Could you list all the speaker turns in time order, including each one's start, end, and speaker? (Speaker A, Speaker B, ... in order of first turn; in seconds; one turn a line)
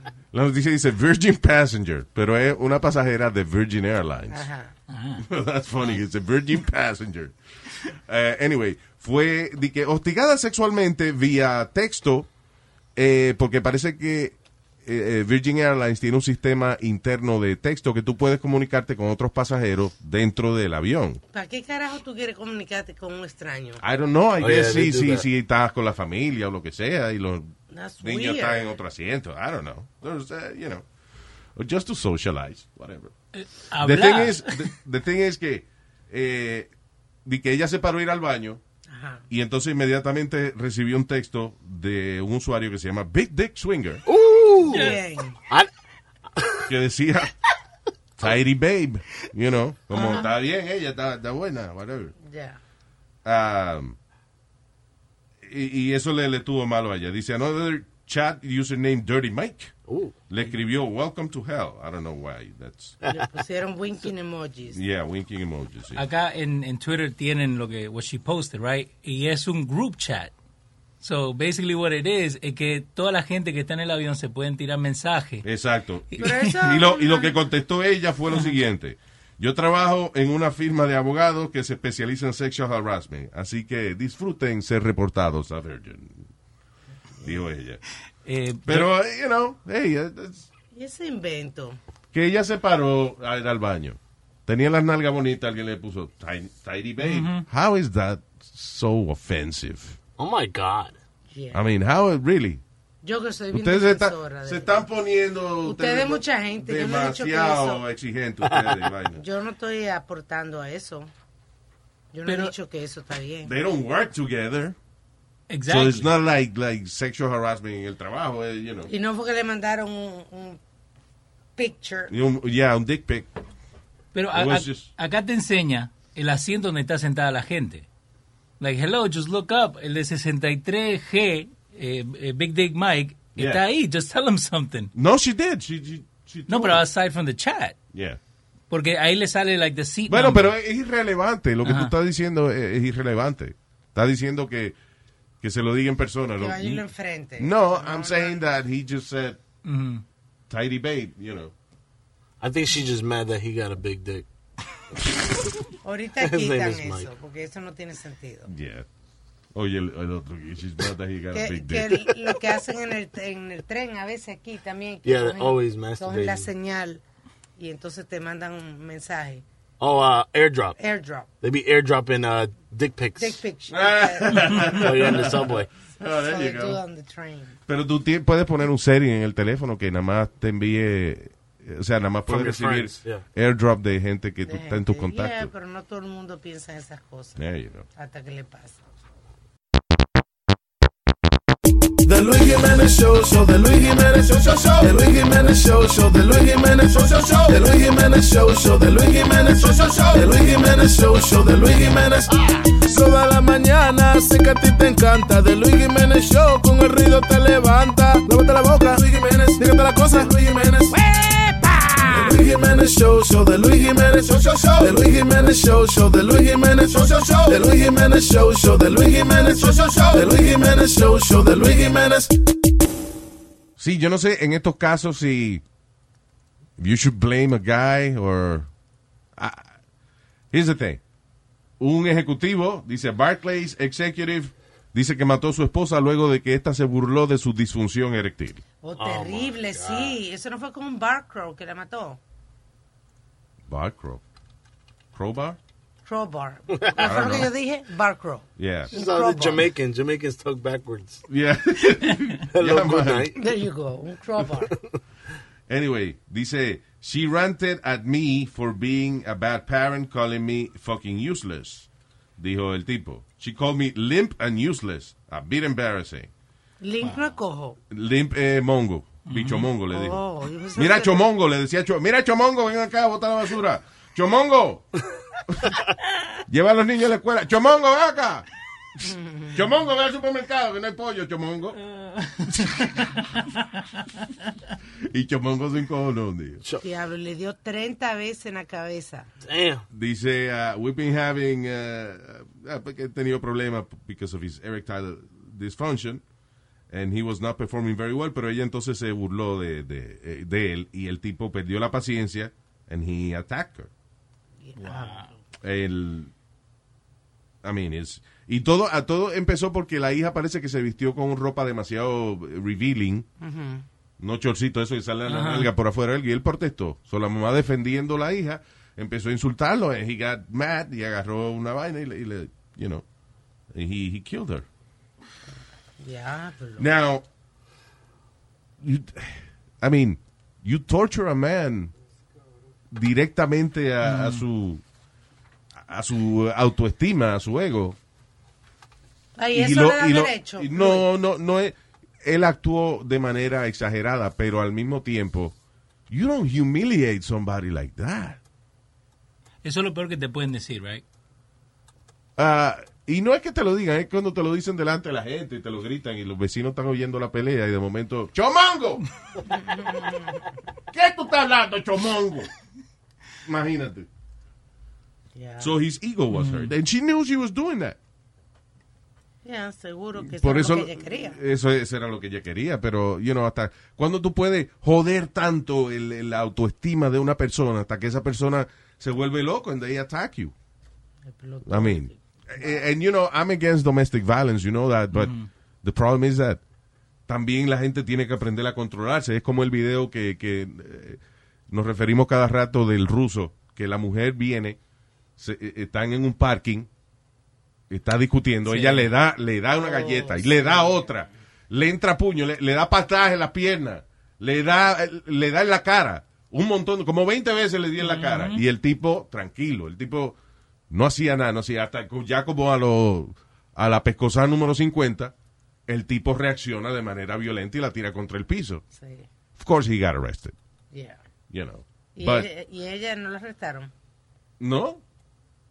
Speaker A: 0.3-4.5
Speaker B: 4.3-4.7
Speaker C: 4.9-5.2
Speaker A: 5.2-7.3
Speaker A: 7.9-12.3
Speaker A: 12.9-21.2
Speaker B: 21.3-23.8
Speaker A: 23.8-30.8
Speaker D: 24.4-25.2
Speaker B: 27.7-28.7
Speaker A: 31.6-33.1
Speaker C: 33.3-34.7
Speaker A: 33.8-36.7
Speaker A: 37.2-38.6
Speaker B: 38.9-39.2
Speaker A: 39.3-44.0
Speaker D: 44.0-44.9
Speaker B: 44.6-45.4
Speaker C: 44.7-45.0
Speaker A: 46.7-47.3
Speaker A: 48.2-52.1
Speaker B: 49.9-50.3
Speaker B: 52.2-52.6
Speaker A: 53.2-54.0
Speaker A: 55.4-59.7
Speaker D: 59.9-60.1
Speaker A: 60.3-62.9
Speaker B: 63.1-64.8
Speaker A: 64.7-66.0
Speaker C: 65.9-70.3
Speaker C: 71.0-75.5
Speaker A: 75.4-86.3
Speaker C: 76.1-76.8
Speaker B: 76.2-77.3
Speaker A: 87.2-87.8
Speaker C: 88.2-88.9
Speaker A: 88.7-90.5
Speaker B: 90.7-91.8
Speaker A: 92.1-100.0
Speaker C: 97.0-97.5
Speaker D: 100.2-101.0
Speaker B: 101.3-101.6
Speaker A: 101.5-102.6
Speaker B: 103.0-104.8
Speaker A: 103.5-109.2
Speaker B: 105.6-107.8
Speaker D: 108.4-108.9
Speaker B: 109.2-111.1
Speaker B: 112.1-113.5
Speaker C: 112.2-112.5
Speaker A: 113.4-114.8
Speaker C: 115.5-116.1
Speaker A: 115.7-118.9
Speaker B: 118.9-120.6
Speaker B: 121.5-122.1
Speaker A: 122.1-123.3
Speaker C: 124.1-127.8
Speaker A: 124.3-124.9
Speaker C: 128.6-134.9
Speaker A: 133.3-133.6
Speaker A: 134.9-136.8
Speaker C: 136.5-137.8
Speaker A: 137.9-138.2
Speaker C: 138.7-140.5
Speaker A: 140.1-144.8
Speaker C: 141.6-141.9
Speaker A: 145.4-146.8
Speaker B: 146.4-148.4
Speaker A: 147.4-149.4
Speaker C: 149.6-150.0
Speaker A: 150.5-151.5
Speaker D: 152.4-154.2
Speaker B: 155.8-158.5
Speaker D: 156.2-157.1
Speaker A: 158.5-158.9
Speaker A: 159.5-162.0
Speaker B: 161.3-167.0
Speaker D: 165.0-166.5
Speaker B: 167.6-169.4
Speaker D: 169.8-170.8
Speaker B: 170.8-171.3
Speaker D: 171.4-173.4
Speaker B: 173.2-175.4
Speaker A: 173.7-176.8
Speaker D: 174.8-175.7
Speaker B: 176.0-177.6
Speaker A: 177.7-185.5
Speaker D: 182.3-183.2
Speaker B: 184.4-187.4
Speaker A: 187.4-187.8
Speaker B: 187.9-188.8
Speaker E: 192.0-211.0
Speaker E: 212.0-222.3
Speaker A: 223.8-225.6
Speaker A: 226.8-228.7
Speaker A: 229.3-229.7
Speaker A: 230.5-231.0
Speaker A: 231.8-238.6
Speaker B: 238.8-242.2
Speaker D: 239.0-240.2
Speaker A: 243.7-244.2
Speaker A: 245.1-245.6
Speaker B: 246.1-249.7
Speaker A: 247.0-247.5
Speaker A: 248.6-248.9
Speaker D: 248.9-251.2
Speaker A: 251.3-253.3
Speaker D: 252.5-253.4
Speaker B: 253.3-254.7
Speaker A: 255.7-266.3
Speaker B: 266.8-267.8
Speaker C: 267.0-267.3
Speaker A: 267.9-270.2
Speaker C: 269.2-269.7
Speaker B: 269.9-271.2
Speaker A: 270.7-274.9
Speaker A: 276.5-278.4
Speaker B: 279.0-279.5
Speaker A: 279.5-281.8
Speaker A: 285.1-286.6
Speaker B: 286.8-289.3
Speaker D: 289.4-289.8
Speaker A: 289.9-296.2
Speaker A: 296.9-303.9
Speaker B: 304.6-305.3
Speaker C: 304.8-305.3
Speaker A: 305.6-306.3
Speaker A: 307.6-313.3
Speaker B: 313.4-313.8
Speaker A: 314.2-323.0
Speaker C: 315.3-315.7
Speaker A: 323.7-324.6
Speaker B: 326.0-326.9
Speaker A: 326.8-327.2
Speaker A: 328.8-331.9
Speaker A: 332.9-334.8
Speaker C: 334.0-334.4
Speaker A: 335.8-338.0
Speaker B: 339.4-341.1
Speaker A: 339.5-345.6
Speaker A: 346.1-348.4
Speaker C: 349.6-351.0
Speaker A: 352.4-359.0
Speaker B: 359.5-360.4
Speaker A: 360.9-362.5
Speaker A: 363.4-364.1
Speaker B: 365.3-365.7
Speaker A: 365.6-368.0
Speaker C: 366.3-366.7
Speaker B: 369.4-371.4
Speaker A: 370.2-380.5
Speaker B: 381.2-382.9
Speaker A: 381.6-386.6
Speaker C: 385.1-385.5
Speaker A: 387.3-394.8
Speaker A: 395.4-396.9
Speaker A: 397.9-410.4
Speaker C: 398.6-399.1
Speaker B: 399.8-401.1
Speaker C: 408.0-408.6
Speaker A: 410.9-415.3
Speaker A: 415.9-418.8
Speaker B: 418.9-419.3
Speaker A: 419.6-420.5
Speaker B: 420.9-421.2
Speaker A: 421.5-422.5
Speaker B: 422.1-423.9
Speaker A: 424.6-425.0